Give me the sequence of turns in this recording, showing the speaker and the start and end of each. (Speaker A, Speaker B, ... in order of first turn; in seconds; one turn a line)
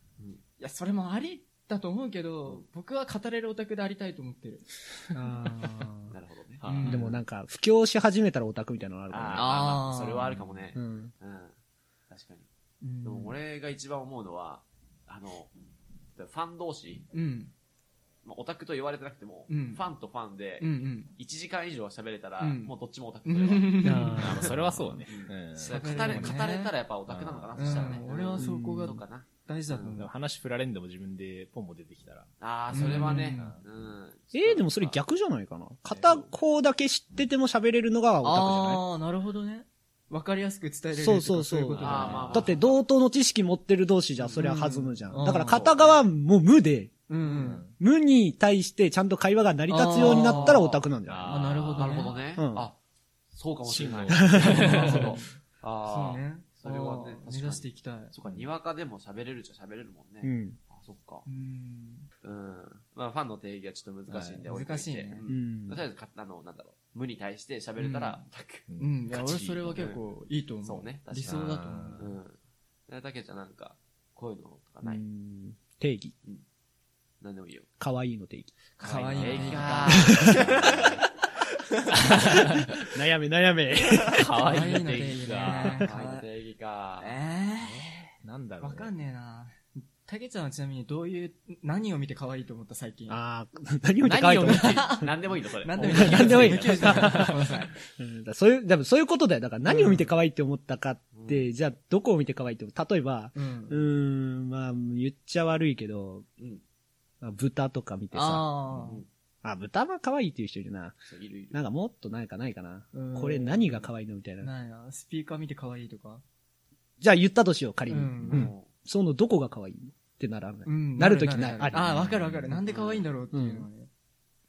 Speaker A: 0.6-5.9
Speaker B: 5.2-6.1
Speaker C: 6.1-7.1
Speaker D: 6.6-7.0
Speaker A: 6.6-7.1
Speaker B: 6.9-9.6
Speaker C: 9.1-11.5
Speaker A: 9.3-10.3
Speaker D: 10.2-10.6
Speaker B: 10.8-11.1
Speaker C: 12.1-12.5
Speaker A: 12.8-13.4
Speaker C: 13.0-15.5
Speaker C: 16.1-17.1
Speaker A: 17.1-17.5
Speaker C: 18.2-30.0
Speaker A: 19.5-19.8
Speaker A: 20.6-21.1
Speaker A: 22.4-22.7
Speaker A: 23.2-24.3
Speaker B: 23.8-24.7
Speaker D: 24.2-26.5
Speaker A: 25.7-26.7
Speaker D: 27.1-28.0
Speaker A: 27.6-30.1
Speaker B: 28.4-29.0
Speaker D: 30.0-33.6
Speaker C: 32.4-35.0
Speaker A: 32.7-33.6
Speaker B: 34.3-38.8
Speaker D: 35.9-36.2
Speaker A: 38.2-42.5
Speaker B: 41.0-47.0
Speaker D: 41.8-42.5
Speaker C: 41.8-42.8
Speaker A: 44.2-45.9
Speaker C: 45.6-45.9
Speaker A: 47.1-47.7
Speaker D: 47.3-47.8
Speaker B: 47.6-51.4
Speaker A: 49.7-52.2
Speaker C: 50.0-50.6
Speaker D: 51.1-52.2
Speaker C: 51.8-52.8
Speaker B: 52.4-52.7
Speaker C: 53.3-61.3
Speaker D: 53.7-55.2
Speaker B: 54.1-54.6
Speaker A: 54.5-55.3
Speaker A: 55.9-58.1
Speaker B: 60.2-60.6
Speaker A: 61.3-62.1
Speaker C: 62.2-68.7
Speaker D: 64.1-64.4
Speaker A: 64.5-65.2
Speaker B: 65.3-65.8
Speaker A: 67.8-68.2
Speaker D: 68.7-69.9
Speaker A: 68.8-72.0
Speaker C: 69.7-70.0
Speaker C: 70.6-72.4
Speaker D: 71.2-72.1
Speaker C: 72.9-75.0
Speaker B: 74.8-76.1
Speaker C: 77.2-77.7
Speaker B: 77.8-78.5
Speaker A: 78.8-80.2
Speaker C: 78.8-81.0
Speaker D: 78.9-81.0
Speaker B: 80.1-80.5
Speaker D: 82.0-82.8
Speaker B: 82.5-84.4
Speaker D: 84.1-85.9
Speaker A: 84.4-86.3
Speaker C: 85.8-87.2
Speaker A: 87.0-87.9
Speaker D: 87.6-88.9
Speaker A: 88.6-93.2
Speaker B: 93.1-95.1
Speaker D: 94.0-95.1
Speaker A: 94.5-95.1
Speaker C: 95.0-97.2
Speaker A: 95.6-97.7
Speaker B: 95.9-97.3
Speaker D: 96.0-97.5
Speaker B: 98.0-106.2
Speaker A: 99.7-100.1
Speaker C: 101.1-101.5
Speaker A: 103.3-103.8
Speaker C: 106.4-106.6
Speaker B: 107.2-108.8
Speaker A: 108.1-109.0
Speaker B: 109.4-111.0
Speaker C: 111.1-111.6
Speaker B: 111.5-114.5
Speaker A: 112.9-113.8
Speaker A: 114.4-116.2
Speaker B: 117.0-121.9
Speaker A: 117.9-118.5
Speaker C: 118.3-118.7
Speaker A: 120.7-123.9
Speaker D: 121.7-122.6
Speaker C: 122.7-123.1
Speaker B: 123.3-123.7